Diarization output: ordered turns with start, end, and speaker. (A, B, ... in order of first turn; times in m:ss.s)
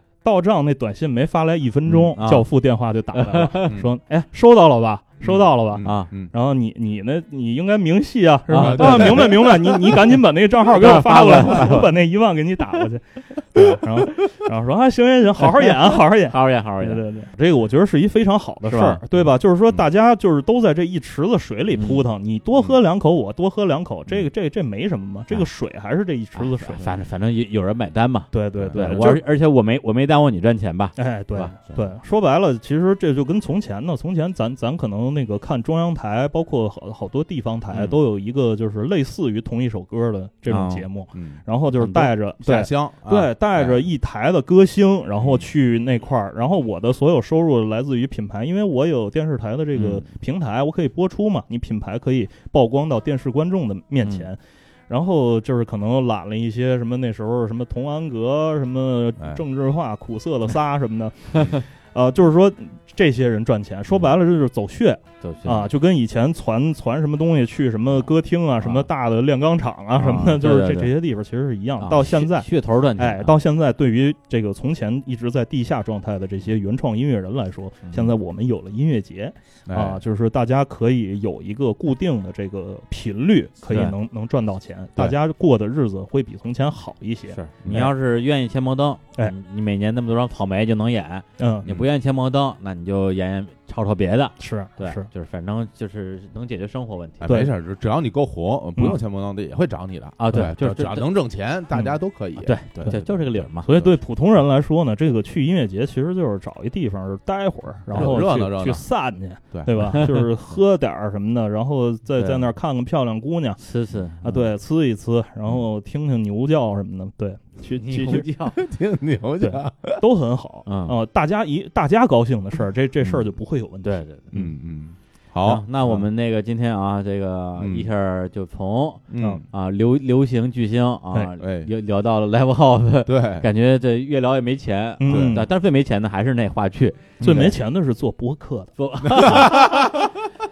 0:00.2-0:26.9 A
0:01.8-0:02.5 B
0:03.2-0:03.7 B
0:05.2-0:06.3 C
0:05.8-0:06.1 B
0:08.5-0:09.9 B
0:08.5-0:09.6 C
0:10.7-0:11.9 B
0:15.4-0:17.0 B
0:18.6-0:19.0 B
0:21.7-0:22.1 B
0:26.4-0:31.6 B
0:28.3-0:29.2 A
0:28.6-0:29.2 C
0:31.0-0:54.4 A
0:40.5-0:40.8 B
0:41.1-0:41.4 C
0:41.8-0:42.1 B
0:42.4-0:43.9 C
0:45.2-0:45.5 C
0:49.7-0:50.0 B
0:54.0-0:54.3 B
0:54.9-1:27.9 A
0:59.2-0:59.4 C
1:05.2-1:05.7 B
1:08.6-1:08.9 B
1:10.0-1:10.9 B
1:11.8-1:13.4 B
1:17.9-1:18.1 B
1:19.7-1:20.0 C
1:23.7-1:23.9 B
1:27.3-1:37.4 B
1:27.6-1:27.9 C
1:31.4-1:31.6 A
1:34.4-1:35.1 A
1:37.2-1:43.9 C
1:37.3-1:37.5 A
1:40.2-1:41.1 B
1:42.4-1:43.7 B
1:43.6-1:53.6 A
1:47.9-1:48.8 C
1:49.7-1:50.2 B
1:52.2-1:52.5 B
1:53.6-1:54.5 B
1:54.2-1:58.2 A
1:57.8-1:58.6 B
1:58.6-2:00.0 C
1:59.4-2:04.1 A
2:00.6-2:01.0 B
2:03.8-2:04.5 B
2:04.3-2:06.1 C
2:05.4-2:17.6 B
2:07.6-2:07.9 C
2:09.1-2:09.4 C
2:11.4-2:11.7 C
2:13.1-2:13.4 C
2:15.0-2:15.5 A
2:15.1-2:15.4 C
2:17.2-2:17.5 C
2:17.2-2:18.7 A
2:18.8-2:20.1 B
2:19.1-2:19.9 C